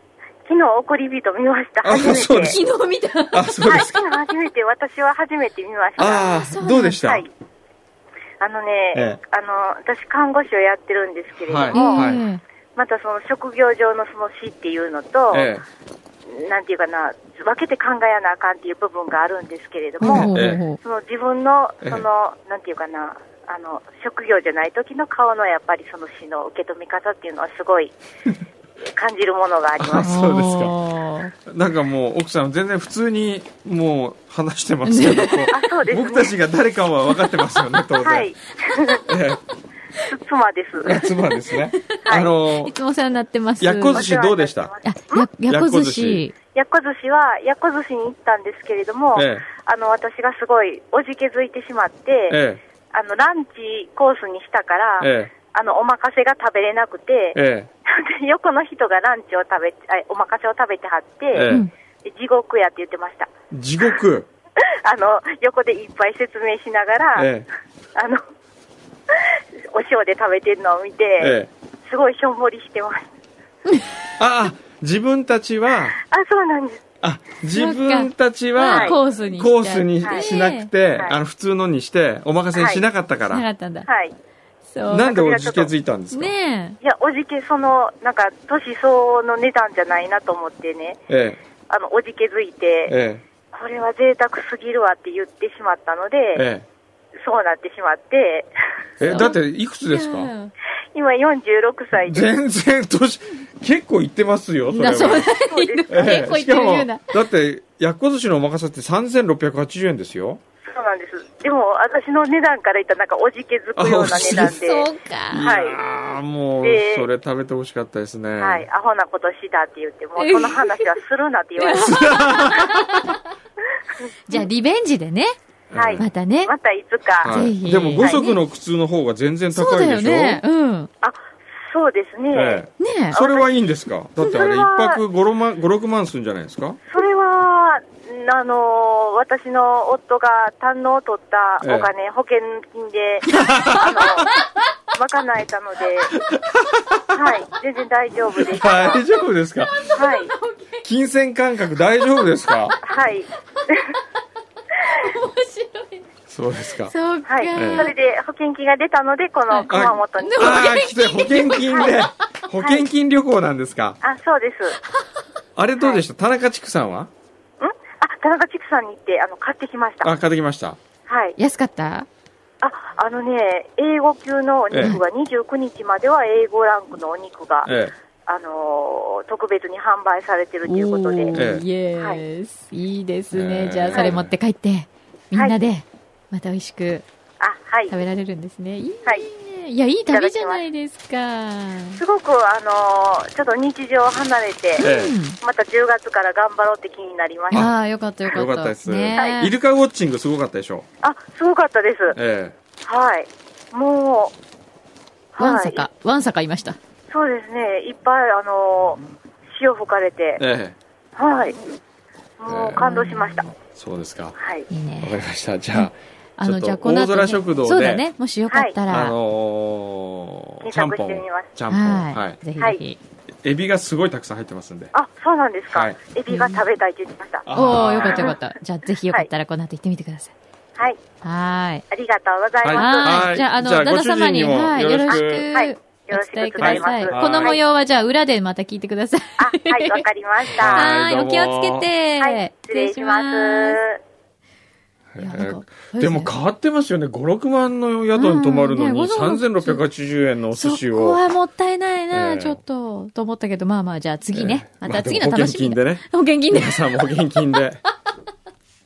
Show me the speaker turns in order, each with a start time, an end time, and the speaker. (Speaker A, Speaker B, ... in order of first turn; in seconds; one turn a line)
Speaker A: 0.5-2.6
Speaker B: 1.8-2.6
Speaker C: 2.3-3.5
Speaker B: 3.3-4.1
Speaker A: 3.6-6.3
Speaker B: 6.0-7.3
Speaker C: 6.3-7.0
Speaker A: 6.9-7.3
Speaker A: 8.4-12.1
Speaker B: 8.9-9.2
Speaker B: 11.4-12.2
Speaker C: 11.7-12.4
Speaker A: 12.8-15.5
Speaker B: 15.3-15.6
Speaker A: 16.3-28.0
Speaker C: 20.0-20.8
Speaker B: 20.1-20.6
Speaker A: 28.9-30.1
Speaker B: 29.8-30.7
Speaker C: 30.0-31.3
Speaker B: 31.4-38.3
Speaker C: 34.8-35.5
Speaker A: 35.5-36.4
Speaker A: 38.0-39.0
Speaker B: 39.0-39.4
Speaker A: 40.1-41.0
Speaker B: 40.8-42.7
Speaker C: 41.2-41.8
Speaker A: 42.0-42.3
Speaker C: 42.6-44.0
Speaker B: 43.6-44.7
Speaker A: 43.9-45.3
Speaker C: 44.8-46.3
Speaker B: 45.5-46.2
Speaker A: 46.5-52.4
Speaker B: 49.1-49.4
Speaker B: 52.3-52.6
Speaker A: 52.9-61.5
Speaker B: 55.0-55.3
Speaker B: 57.3-57.7
Speaker B: 61.3-61.6
Speaker A: 62.0-63.3
Speaker B: 63.5-64.3
Speaker A: 64.6-67.3
Speaker B: 67.2-67.5
Speaker A: 67.9-68.2
Speaker A: 69.1-71.3
Speaker B: 71.2-71.5
Speaker A: 71.9-73.1
Speaker B: 74.2-76.0
Speaker A: 76.0-76.8
Speaker B: 77.0-83.5
Speaker C: 77.5-80.7
Speaker A: 78.6-78.9
Speaker A: 80.0-80.3
Speaker A: 82.5-82.8
Speaker C: 83.3-83.9
Speaker A: 83.9-84.1
Speaker C: 84.7-85.1
Speaker B: 84.9-86.3
Speaker A: 84.9-85.7
Speaker C: 86.1-86.8
Speaker A: 86.8-91.0
Speaker B: 91.1-91.4
Speaker A: 91.7-93.0
Speaker B: 92.9-93.2
Speaker A: 93.5-96.4
Speaker B: 96.3-96.7
Speaker A: 97.2-98.5
Speaker B: 99.0-100.3
Speaker C: 99.0-99.3
Speaker C: 99.9-100.5
Speaker A: 100.9-102.2
Speaker B: 102.0-105.3
Speaker C: 104.7-107.1
Speaker A: 104.8-106.3
Speaker B: 105.9-110.4
Speaker A: 110.6-114.9
Speaker B: 113.8-114.6
Speaker C: 114.4-115.5
Speaker B: 115.3-118.7
Speaker A: 115.4-115.8
Speaker A: 116.6-117.1
Speaker A: 118.4-122.1
Speaker C: 120.2-121.0
Speaker C: 121.6-123.2
Speaker B: 121.7-123.1
Speaker A: 123.8-124.1
Speaker C: 124.3-125.3
Speaker B: 125.7-126.1
Speaker A: 125.7-127.5
Speaker C: 126.0-126.5
Speaker B: 127.2-130.4
Speaker C: 127.2-128.4
Speaker C: 129.5-130.9
Speaker A: 131.7-133.5
Speaker B: 132.3-136.8
Speaker C: 132.8-133.2
Speaker A: 134.2-135.0
Speaker A: 136.9-144.3
Speaker B: 141.6-141.9
Speaker B: 143.3-144.3
Speaker C: 143.3-143.7
Speaker A: 144.9-146.2
Speaker B: 146.1-147.2
Speaker A: 147.1-149.0
Speaker B: 148.5-149.9
Speaker C: 149.7-150.8
Speaker A: 149.9-150.3
Speaker B: 150.8-152.8
Speaker A: 152.8-153.9
Speaker C: 153.5-154.0
Speaker C: 154.8-156.1
Speaker B: 156.3-156.9
Speaker C: 156.9-157.9
Speaker A: 157.3-160.7
Speaker B: 157.5-157.9
Speaker C: 159.5-162.0
Speaker B: 159.7-164.0
Speaker A: 161.6-162.0
Speaker A: 164.0-164.8
Speaker B: 165.6-167.1
Speaker A: 167.6-170.1
Speaker B: 170.0-170.8
Speaker A: 171.1-171.3
Speaker C: 171.4-172.1
Speaker A: 172.6-177.7
Speaker B: 174.7-175.0
Speaker B: 177.6-177.9
Speaker A: 178.3-181.4
Speaker C: 180.7-187.0
Speaker B: 181.3-181.6
Speaker A: 181.9-182.2
Speaker B: 183.3-184.3
Speaker A: 187.4-187.9
Speaker C: 187.9-192.0
Speaker A: 190.1-190.6
Speaker A: 191.9-194.9
Speaker C: 194.8-195.4
Speaker B: 194.8-195.2
Speaker A: 195.4-197.7
Speaker B: 197.5-200.9
Speaker C: 197.5-199.5
Speaker A: 201.0-202.2
Speaker B: 202.1-202.6
Speaker A: 202.8-204.3
Speaker A: 205.3-205.8
Speaker C: 205.4-206.8
Speaker A: 207.1-209.0
Speaker A: 209.5-210.4
Speaker B: 210.4-210.8
Speaker A: 211.2-211.6
Speaker A: 212.4-213.5
Speaker B: 212.4-212.9
Speaker C: 212.8-213.5
Speaker B: 213.6-214.4
Speaker A: 214.4-214.7
Speaker C: 214.7-215.2
Speaker B: 215.0-218.0
Speaker C: 215.7-219.2
Speaker A: 218.5-218.7
Speaker B: 218.9-222.4
Speaker A: 220.6-221.5
Speaker C: 221.7-223.0
Speaker B: 223.4-224.9
Speaker A: 224.9-228.4
Speaker B: 225.7-226.0
Speaker C: 226.3-226.6
Speaker B: 227.4-228.3
Speaker C: 227.5-230.3
Speaker C: 231.2-231.8
Speaker A: 231.9-233.3
Speaker B: 232.6-235.5
Speaker C: 232.7-240.0
Speaker A: 235.1-237.6
Speaker B: 236.6-237.6
Speaker A: 239.4-240.9
Speaker B: 240.5-241.9
Speaker C: 240.6-243.8
Speaker A: 242.2-244.0
Speaker B: 245.1-251.2
Speaker C: 245.2-246.3
Speaker C: 248.1-249.8
Speaker C: 250.5-257.6
Speaker B: 252.1-252.6
Speaker B: 254.3-257.8